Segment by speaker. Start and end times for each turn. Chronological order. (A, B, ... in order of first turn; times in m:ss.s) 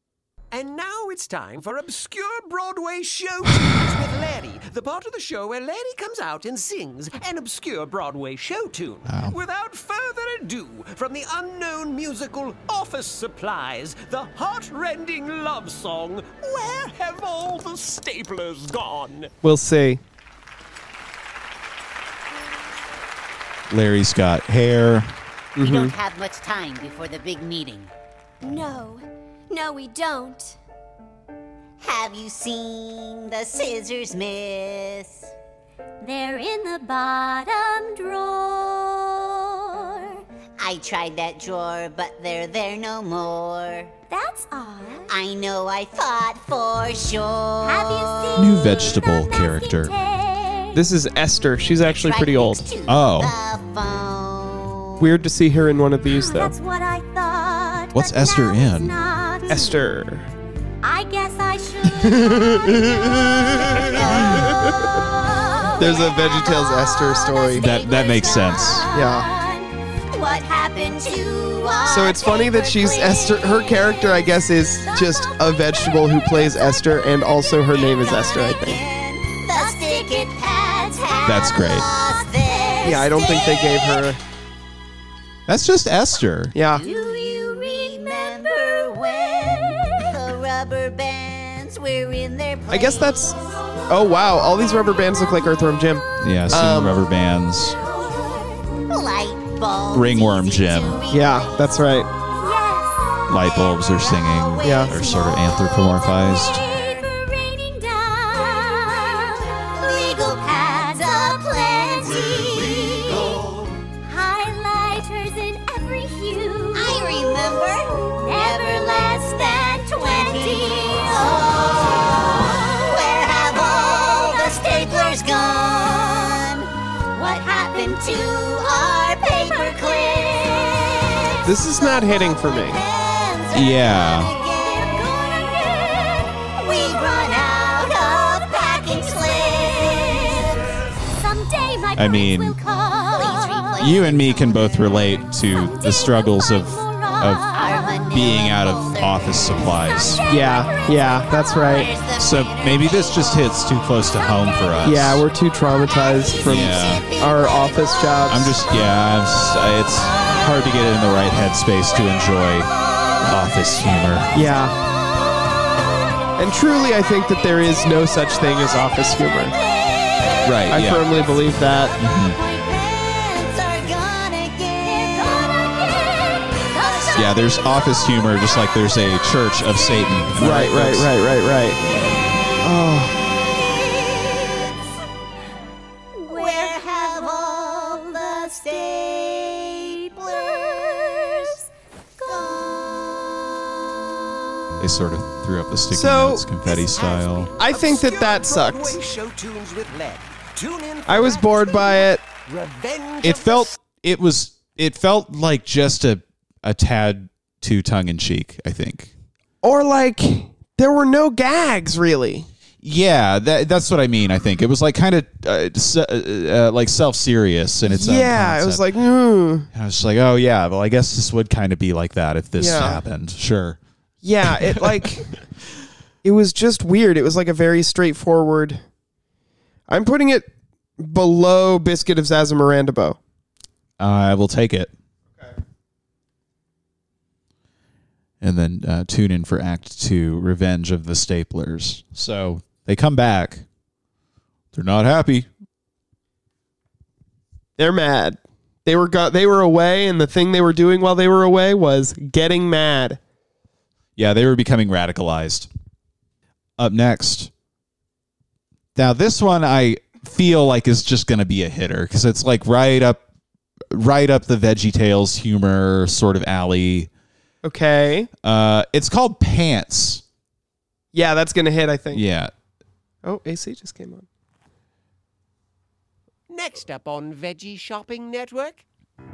0:00.5-0:19.3 A
0:09.1-0:09.4 B
0:19.4-0:20.0 C
0:23.7-0:25.1 B
0:25.6-0:26.0 C
0:25.6-0:27.9 D
0:28.5-0:30.5 E
0:31.8-0:35.3 D
0:36.0-0:38.8 E
0:40.6-0:43.9 D
0:44.1-0:45.1 E
0:45.1-0:48.4 D
0:47.6-0:50.8 E
0:48.4-0:49.9 B
0:50.8-0:52.7 C
0:51.8-0:55.2 D
0:52.9-0:53.3 B
0:55.0-0:56.6 C
0:56.1-0:59.7 E
0:57.9-0:59.0 B
0:59.5-1:00.3 C
1:00.9-1:04.2 E
1:02.0-1:02.8 C
1:03.6-1:04.8 C
1:03.7-1:04.4 D
1:05.0-1:09.7 E
1:05.8-1:07.7 C
1:07.6-1:08.9 B
1:07.6-1:08.8 D
1:08.9-1:09.3 C
1:10.1-1:13.5 D
1:11.9-1:18.8 C
1:14.8-1:16.3 E
1:17.7-1:24.1 D
1:19.5-1:21.3 E
1:21.2-1:21.9 B
1:22.4-1:23.0 E
1:22.8-1:24.2 C
1:25.5-1:26.6 B
1:26.5-1:26.8 C
1:26.7-1:33.4 D
1:26.8-1:27.9 E
1:32.7-1:33.4 C
1:33.9-1:37.0 C
1:36.2-1:37.8 B
1:37.8-1:38.6 E
1:38.9-1:41.9 D
1:39.9-1:41.0 B
1:41.1-1:42.1 C
1:42.3-1:43.4 E
1:43.3-1:46.6 B
1:43.3-1:45.4 D
1:44.6-1:45.0 C
1:45.0-1:53.3 E
1:46.6-1:47.1 D
1:49.7-1:53.6 D
1:54.0-2:01.4 E
1:56.7-2:15.7 D
2:03.4-2:06.2 E
2:09.2-2:10.7 E
2:11.4-2:12.8 C
2:13.5-2:14.3 B
2:14.7-2:16.3 E
2:16.5-2:20.8 D
2:18.9-2:20.2 E
2:21.1-2:23.7 E
2:22.0-2:22.6 B
2:23.1-2:25.0 D
2:23.8-2:27.4 B
2:25.7-2:28.0 E
2:27.5-2:30.3 D
2:28.1-2:30.2 B
2:30.3-2:31.9 C
2:31.6-2:33.5 D
2:32.2-2:35.2 B
2:34.8-2:38.5 C
2:35.9-2:38.3 D
2:36.4-2:37.1 B
2:38.3-2:44.4 B
2:44.3-2:44.8 C
2:44.4-2:45.0 D
2:46.4-2:49.6 C
2:49.5-2:50.6 D
2:50.4-2:51.1 B
2:50.7-2:52.0 C
2:52.0-2:52.4 B
2:52.3-2:56.2 D
2:55.1-2:55.4 E
2:56.7-2:57.4 D
2:56.7-2:57.2 E
2:57.1-3:01.1 B
3:00.4-3:01.8 C
3:02.6-3:03.2 C
3:03.4-3:04.8 D
3:06.2-3:11.6 D
3:06.4-3:06.7 E
3:12.2-3:13.0 D
3:14.8-3:17.5 B
3:15.9-3:16.5 C
3:16.9-3:23.8 A
3:17.6-3:19.0 C
3:21.1-3:22.2 C
3:23.2-3:29.1 B
3:29.6-3:32.5 C
3:32.8-3:39.0 B
3:37.9-3:39.7 C
3:39.7-3:43.8 B
3:42.6-3:43.0 C
3:44.2-3:45.4 C
3:44.5-3:45.0 B
3:46.2-3:48.8 C
3:49.9-3:53.2 C
3:54.0-3:54.9 B
3:58.4-4:03.6 B
4:04.7-4:05.5 B
4:07.8-4:13.2 C
4:14.2-4:15.7 B
4:16.8-4:17.5 B
4:19.0-4:23.2 B
4:23.9-4:27.1 B
4:27.6-4:28.3 C
4:28.4-4:30.2 B
4:31.1-4:32.2 C
4:32.1-4:32.5 B
4:33.2-4:34.3 C
4:36.5-4:38.8 A